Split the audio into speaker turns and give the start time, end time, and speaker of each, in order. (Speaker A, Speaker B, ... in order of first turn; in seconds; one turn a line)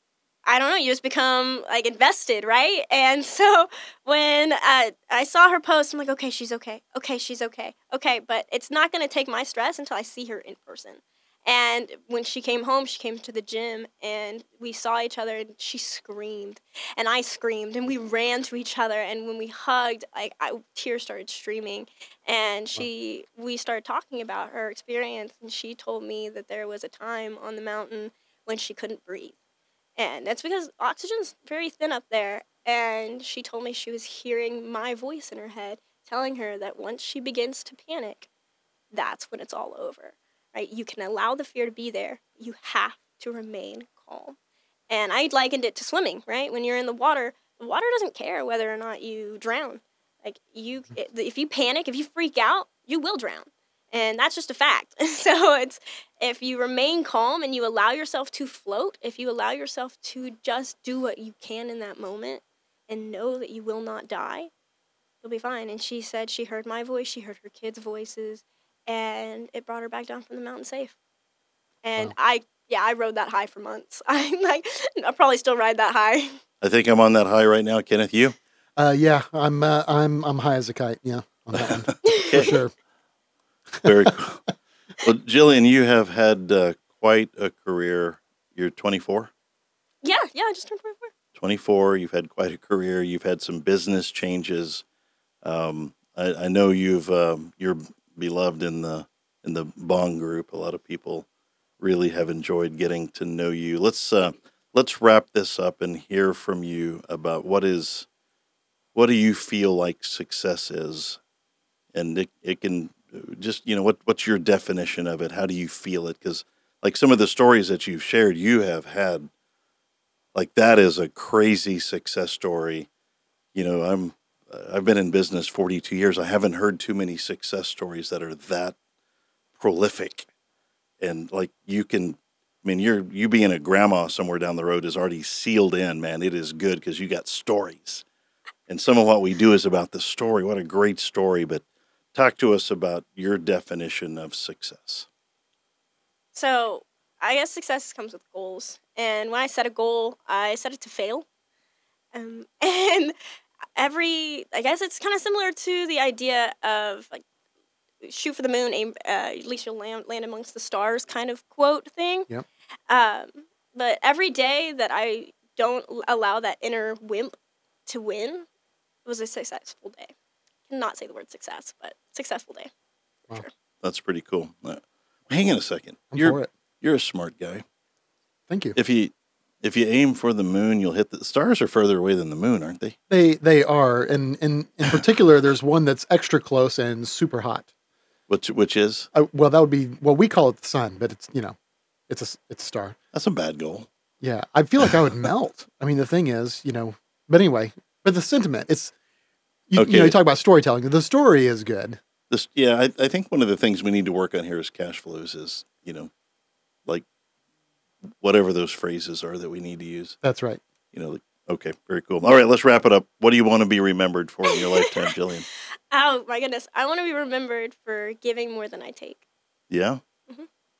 Speaker A: 0.5-29.3
Speaker A: 30.0-38.3
Speaker A: 38.9-44.4
Speaker A: 44.9-64.5
Speaker A: 65.2-70.9
Speaker A: 71.8-76.4
Speaker B: 76.6-78.3
Speaker C: 78.8-82.7
Speaker B: 81.5-82.5
Speaker B: 83.8-84.5
Speaker B: 85.0-89.3
Speaker A: 90.0-91.1
Speaker B: 91.3-94.8
Speaker B: 95.4-101.2
Speaker B: 101.8-108.1
Speaker B: 108.9-111.2
Speaker B: 111.9-119.3
Speaker B: 120.3-122.9
Speaker B: 123.5-128.8
Speaker B: 129.6-130.3
Speaker B: 131.0-138.0
Speaker B: 138.7-145.1
Speaker A: 146.3-151.2
Speaker A: 152.1-153.1
Speaker A: 153.8-157.2
Speaker A: 158.0-162.3
Speaker A: 162.9-167.3
Speaker A: 167.8-168.5
Speaker A: 169.0-170.1
Speaker A: 170.7-172.7
Speaker B: 173.8-177.6
Speaker C: 176.1-176.5
Speaker C: 178.5-178.8
Speaker B: 178.8-182.9
Speaker C: 183.1-187.7
Speaker B: 188.3-189.1
Speaker C: 189.1-191.6
Speaker C: 192.1-192.9
Speaker B: 193.1-193.9
Speaker C: 194.2-198.9
Speaker C: 199.7-202.0
Speaker B: 199.8-200.2
Speaker B: 202.3-206.1
Speaker B: 208.2-210.2
Speaker C: 210.2-210.6
Speaker B: 210.9-215.4
Speaker A: 214.5-215.1
Speaker A: 215.9-219.2
Speaker B: 219.7-220.0